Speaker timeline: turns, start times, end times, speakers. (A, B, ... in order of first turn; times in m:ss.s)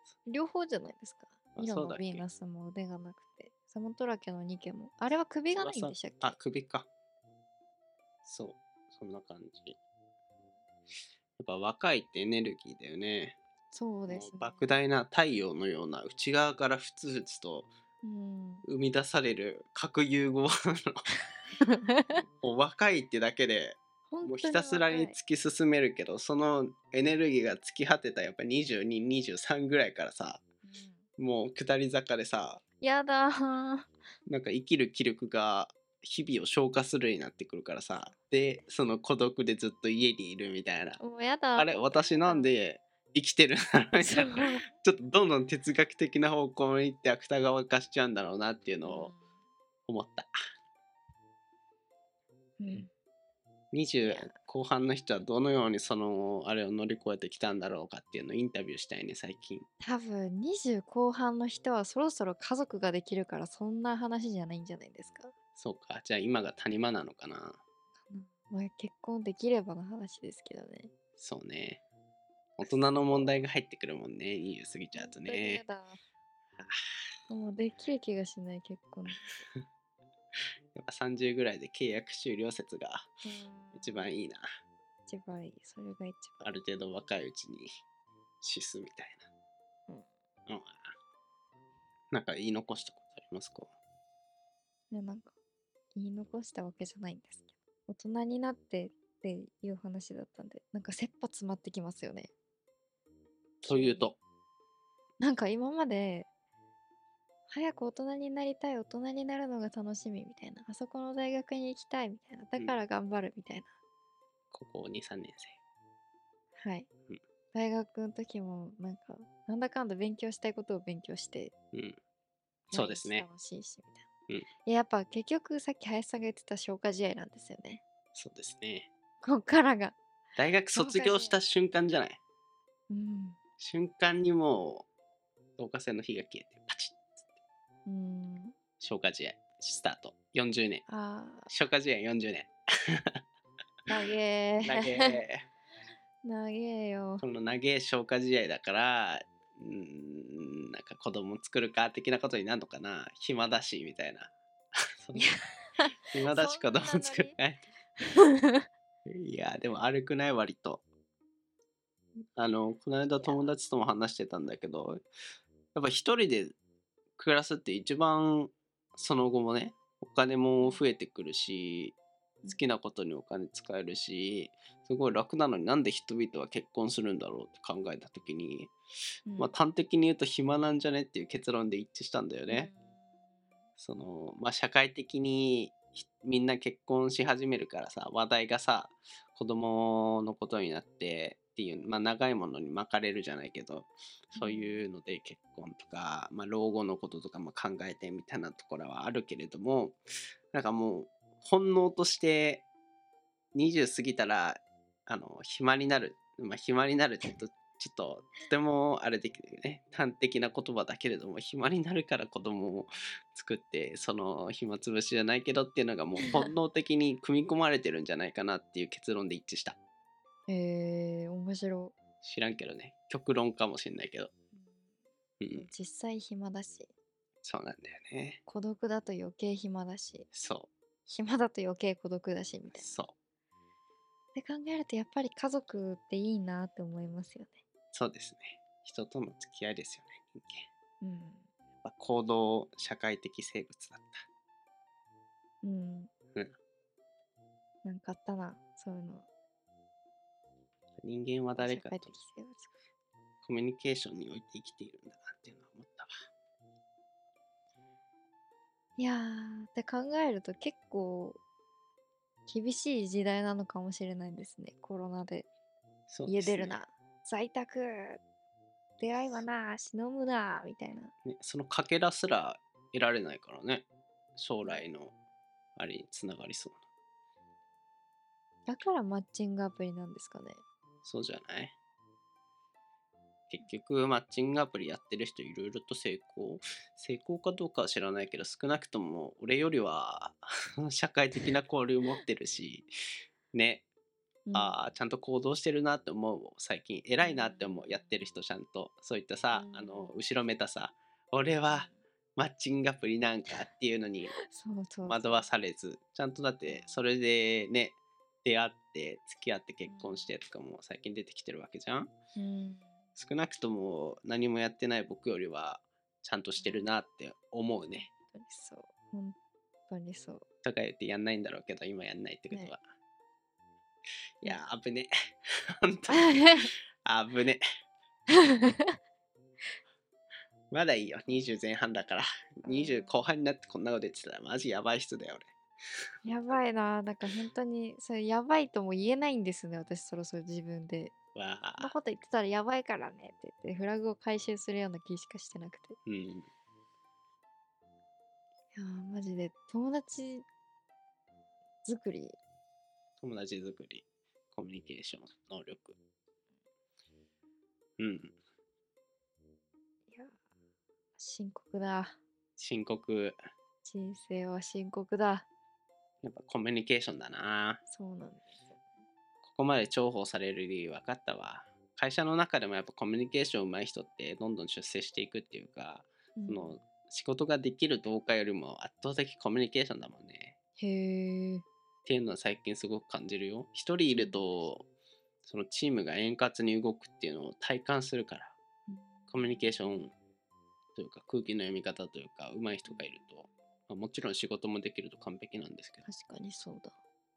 0:00.3-0:06.4 A
0:01.6-0:02.2 B
0:05.5-0:06.9 B
0:08.2-0:09.8 B
0:11.4-0:13.4 B
0:13.7-0:14.7 A
0:14.1-0:17.7 B
0:18.0-0:18.6 A
0:18.6-0:21.0 B
0:21.6-0:22.2 A
0:22.2-0:30.4 B
0:24.1-0:25.2 A
0:30.6-0:31.0 A
0:31.2-0:32.6 B
0:32.8-0:33.9 A
0:34.3-0:41.0 B
0:41.0-0:42.5 A
0:41.5-0:49.1 B
0:44.0-0:44.6 A
0:48.8-0:49.2 A
0:49.9-0:50.3 B
0:52.6-0:52.9 A
0:53.7-0:59.7 B
0:59.8-1:05.3 A
1:05.6-1:07.6 B
1:08.0-1:10.9 A
1:11.2-1:11.8 B
1:12.6-1:15.6 B
1:12.6-1:13.3 A
1:14.9-1:16.0 A
1:17.3-1:19.3 A
1:20.7-1:23.2 B
1:23.2-1:24.1 A
1:23.7-1:24.4 B
1:25.1-1:26.6 A
1:26.4-1:27.7 B
1:28.4-1:29.2 B
1:30.5-1:30.8 B
1:32.1-1:33.7 B
1:34.9-1:35.3 A
1:35.9-1:42.3 A
1:43.6-1:44.1 A
1:43.6-1:44.2 B
1:45.2-1:46.3 A
1:47.5-1:53.7 A
1:54.5-1:55.6 B
1:56.6-1:56.9 A
1:57.5-2:01.5 A
2:01.7-2:02.0 B
2:02.7-2:03.2 B
2:02.7-2:04.0 A
2:04.6-2:07.8 A
2:08.1-2:08.9 B
2:09.2-2:10.0 A
2:10.4-2:12.2 B
2:10.7-2:11.3 A
2:12.9-2:13.4 A
2:13.6-2:14.9 B
2:15.6-2:17.2 B
2:17.8-2:18.6 A
2:18.8-2:20.8 B
2:20.9-2:21.5 A
2:21.5-2:23.2 B
2:23.9-2:25.2 A
2:24.6-2:25.5 B
2:26.2-2:27.2 A
2:27.2-2:34.3 B
2:35.0-2:35.3 B
2:35.1-2:37.4 A
2:36.1-2:37.6 B
2:38.0-2:38.6 A
2:39.0-2:40.8 B
2:42.4-2:45.0 B
2:43.2-2:43.4 A
2:45.7-2:46.5 B
2:47.2-2:52.0 B
2:52.5-2:58.7 B
2:59.3-2:59.5 A
2:59.4-3:02.7 B
3:02.5-3:02.8 A
3:03.8-3:20.0 B
3:14.4-3:14.8 A
3:20.5-3:22.7 B
3:23.5-3:39.8 B
3:36.2-3:36.5 A
3:40.5-3:41.9 A
3:42.2-3:44.3 B
3:45.4-3:45.7 B
3:45.5-3:46.9 A
3:47.4-3:48.4 B
3:48.5-3:50.3 A
3:50.3-3:50.7 B
3:51.0-3:53.0 A
3:52.7-3:53.1 B
3:54.3-3:57.6 A
3:57.9-4:00.7 B
4:01.0-4:01.4 A
4:01.8-4:04.2 B
4:05.6-4:06.1 A
4:07.8-4:09.3 A
4:11.0-4:12.2 B
4:11.6-4:12.7 A
4:13.4-4:16.1 B
4:19.0-4:21.4 A
4:22.5-4:25.5 A
4:26.1-4:26.8 B
4:26.3-4:28.2 A
4:29.0-4:31.1 A
4:31.2-4:35.1 B
4:35.8-4:36.8 B
4:38.7-4:40.6 A
4:41.0-4:41.7 B
4:43.5-4:52.9 B
4:53.5-4:53.9 B
4:54.4-4:54.8 A
4:54.5-5:04.4 B
4:57.2-4:58.0 A
4:59.5-5:00.1 A
5:01.7-5:01.9 A
5:04.5-5:05.5 A
5:05.0-5:12.1 B
5:06.7-5:07.0 A
5:09.9-5:10.3 A
5:12.4-5:12.9 A
5:13.2-5:18.1 B
5:16.6-5:16.9 A
5:17.9-5:20.4 A
5:20.6-5:22.8 B
5:24.4-5:25.1 B
5:25.8-5:26.5 B
5:26.1-5:26.7 A
5:27.0-5:27.6 B
5:28.6-5:28.9 A
5:30.7-5:35.5 B
5:32.6-5:33.3 A
5:36.2-5:41.1 A
5:41.3-5:41.9 B
5:41.8-5:46.0 A
5:46.1-5:46.5 B
5:48.7-5:50.4 A
5:51.8-5:52.4 A
5:53.2-5:56.0 B
5:58.0-5:58.3 B
6:01.2-6:02.2 A
6:02.6-6:03.4 B
6:03.8-6:05.5 A
6:06.2-6:07.8 B
6:07.9-6:08.8 A
6:09.4-6:20.6 B
6:16.4-6:16.8 A
6:20.8-6:21.6 A
6:22.0-6:24.9 B
6:24.1-6:24.7 A
6:25.4-6:28.6 B
6:28.9-6:30.1 A
6:29.3-6:30.1 B
6:30.9-6:36.0 B
6:36.0-6:36.9 A